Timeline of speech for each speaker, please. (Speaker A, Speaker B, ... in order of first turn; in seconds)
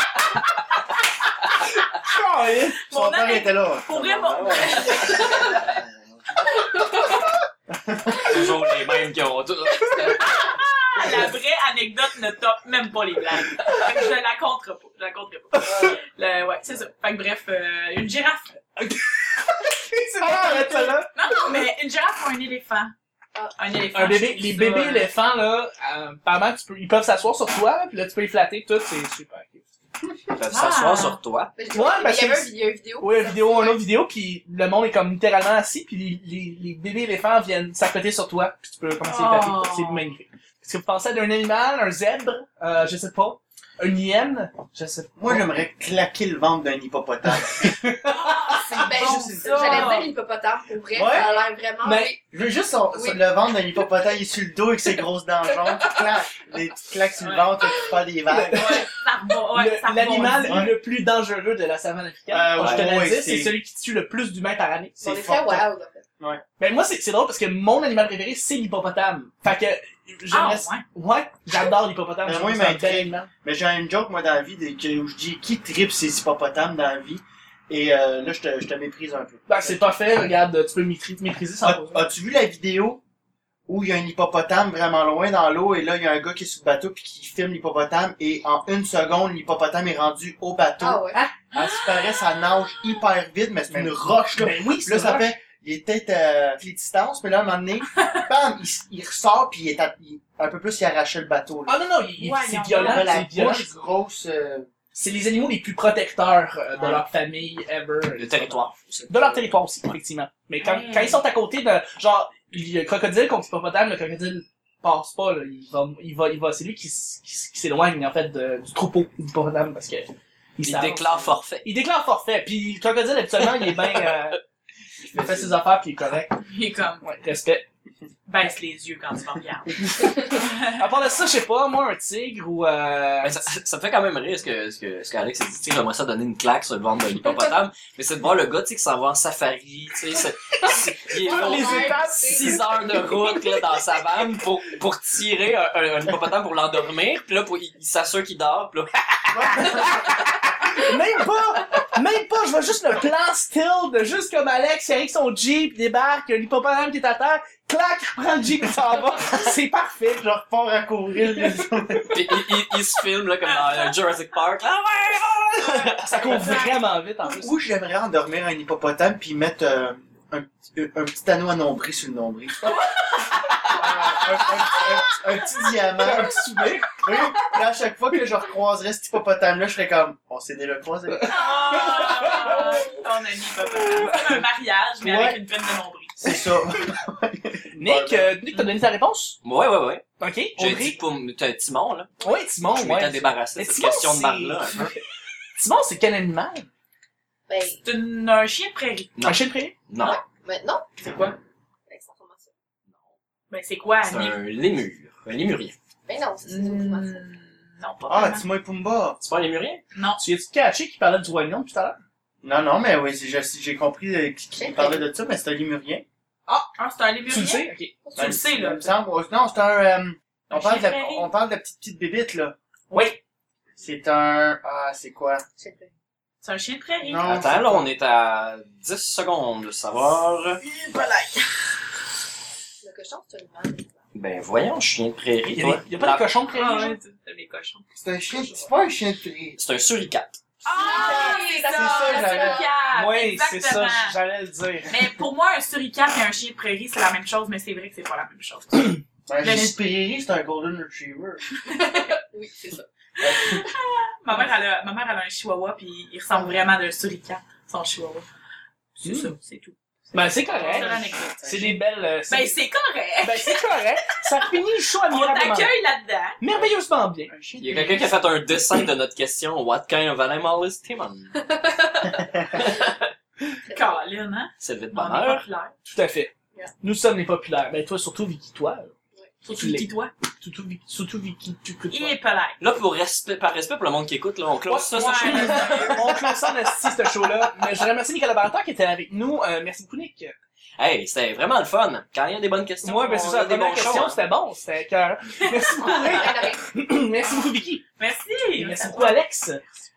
Speaker A: 1.6-2.8, 18.8-21.6, 23.9-29.7, 31.7-45.5, 47.4-48.6, 51.8-52.1, 58.3-58.9, 59.5-65.6, 66.6-73.2, 79.5-82.0, 93.7-95.3, 101.7-103.7, 104.9-124.4, 125.1-126.4, 127.0-127.7, 129.8-133.5, 141.2-142.7, 149.6-160.2, 165.5-167.5, 176.0-177.0, 181.1-182.9, 183.7-184.4, 187.7-189.4, 190.2-191.0, 192.2-195.0, 195.6-196.7, 199.2-199.7, 210.2-212.0, 217.3-217.9, 222.9-223.2, 230.6-231.4, 235.5-237.0, 242.9-245.1, 259.0-259.3, 260.1-262.5, 263.2-265.7, 266.4-267.3, 275.9-278.9, 279.5-279.9, 280.4-282.1, 284.7-290.3, 292.8-297.8, 298.6-299.6
Speaker B: 2.9-5.6, 10.0-18.5, 20.5-22.9, 23.6-25.1, 30.5-31.2, 39.0-40.1, 48.0-50.1, 57.2-57.5, 58.5-60.7, 70.3-70.8, 91.5-92.8, 98.0-98.2, 102.2-103.2, 110.6-111.2, 126.4-127.0, 128.3-130.9, 163.5-163.9, 166.2-166.7, 173.1-173.8, 181.2-186.3, 197.8-199.2, 201.0-201.4, 203.5-204.4, 206.4-208.4, 209.9-210.2, 216.8-218.9, 220.5-221.3, 226.4-227.2, 236.5-237.8, 240.6-244.2, 244.9-249.8, 251.7-252.2, 253.2-258.3, 259.0-261.4, 262.3-264.6, 265.1-266.4, 273.7-275.7, 279.4-280.1, 281.9-282.6, 284.9-286.3, 295.4-296.5, 298.0-299.2
Speaker C: 2.9-6.8, 7.7-8.5, 45.1-47.9, 48.7-50.0, 50.9-51.5, 52.3-58.9, 60.3-60.7, 62.3-63.5, 72.2-80.0, 81.6-83.0, 83.7-101.8, 102.8-104.7, 125.0-125.5, 149.3-150.1, 160.2-162.3, 167.2-172.7, 173.7-181.6, 185.0-185.4, 186.2-188.3, 208.1-209.2, 212.4-216.0, 218.2-222.6, 223.8-225.4, 227.0-227.9, 237.9-239.6, 240.8-242.7, 249.3-251.4, 253.2-253.7, 260.5-261.8, 267.3-268.3, 272.2-272.4
Speaker D: 4.4-5.4, 8.2-10.5, 30.3-31.5, 62.6-62.8, 108.2-109.9, 120.6-121.7, 133.2-150.0, 162.1-166.6, 189.4-190.1, 190.6-192.1, 192.7-194.9, 199.2-200.2, 204.1-205.8, 209.2-209.8, 227.2-230.6, 234.1-236.3, 239.6-240.4, 267.6-271.4, 272.5-273.1, 274.6-275.4, 282.6-286.1, 290.8-294.2
Speaker E: 5.0-5.5, 6.5-7.2, 31.5-33.8, 48.7-52.2, 52.9-53.2, 65.0-66.0, 90.8-91.2, 140.7-143.2, 197.5-197.8, 200.0-201.0, 201.9-202.5, 206.1-207.2, 214.6-215.1, 218.0-218.4, 225.6-225.9, 232.8-234.0, 240.7-242.7, 251.7-252.8, 271.4-272.8, 273.6-274.1, 295.9-296.6